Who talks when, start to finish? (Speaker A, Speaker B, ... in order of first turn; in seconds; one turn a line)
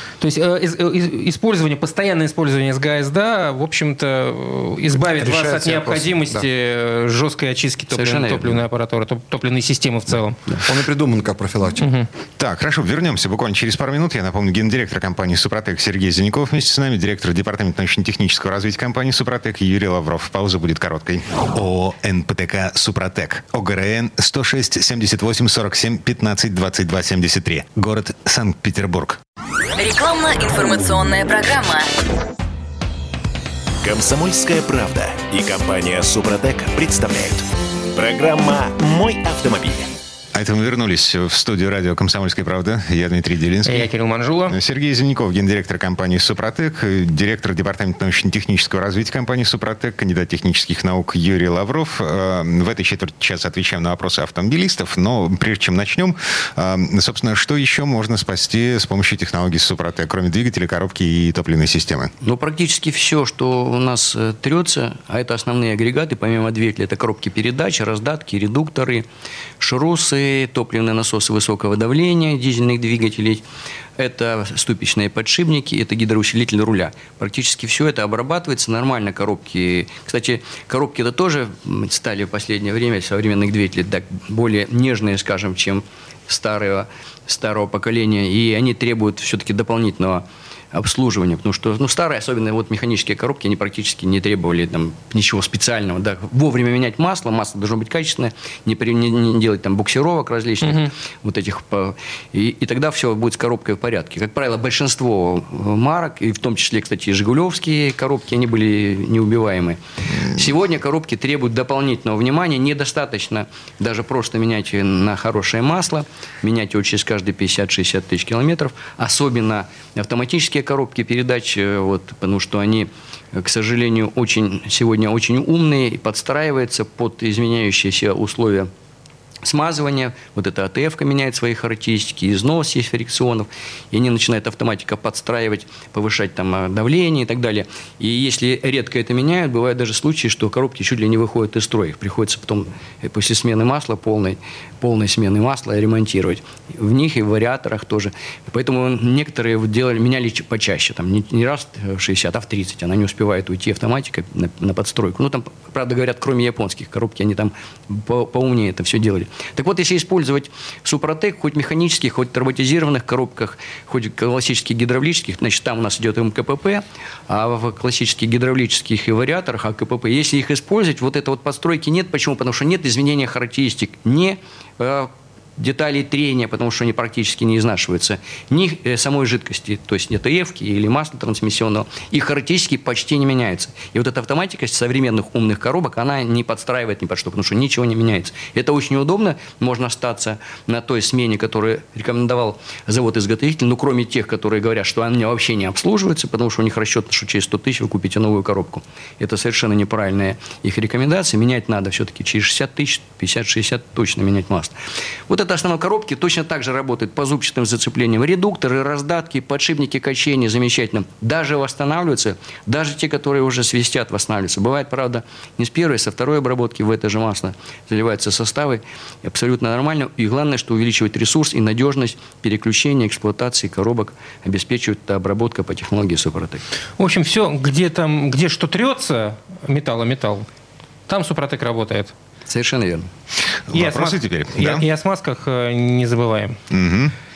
Speaker A: 0.2-10.4
Speaker B: 5.2-6.5
Speaker C: 7.9-8.6
Speaker B: 10.6-11.9
Speaker A: 11.8-12.1
Speaker D: 12.4-29.2
Speaker E: 29.8-31.9
Speaker F: 33.8-40.0
Speaker D: 40.3-43.9
Speaker A: 43.6-44.6
Speaker D: 44.5-62.1
Speaker C: 62.2-69.1
Speaker C: 69.6-73.4
Speaker C: 74.0-128.7
Speaker A: 100.7-100.9
Speaker C: 129.4-204.7
Speaker C: 205.3-226.7
Speaker A: 227.0-230.5
Speaker A: 231.1-232.1
Speaker C: 232.5-233.1
Speaker D: 233.7-234.8
Speaker A: 233.7-236.6
Speaker D: 236.7-237.1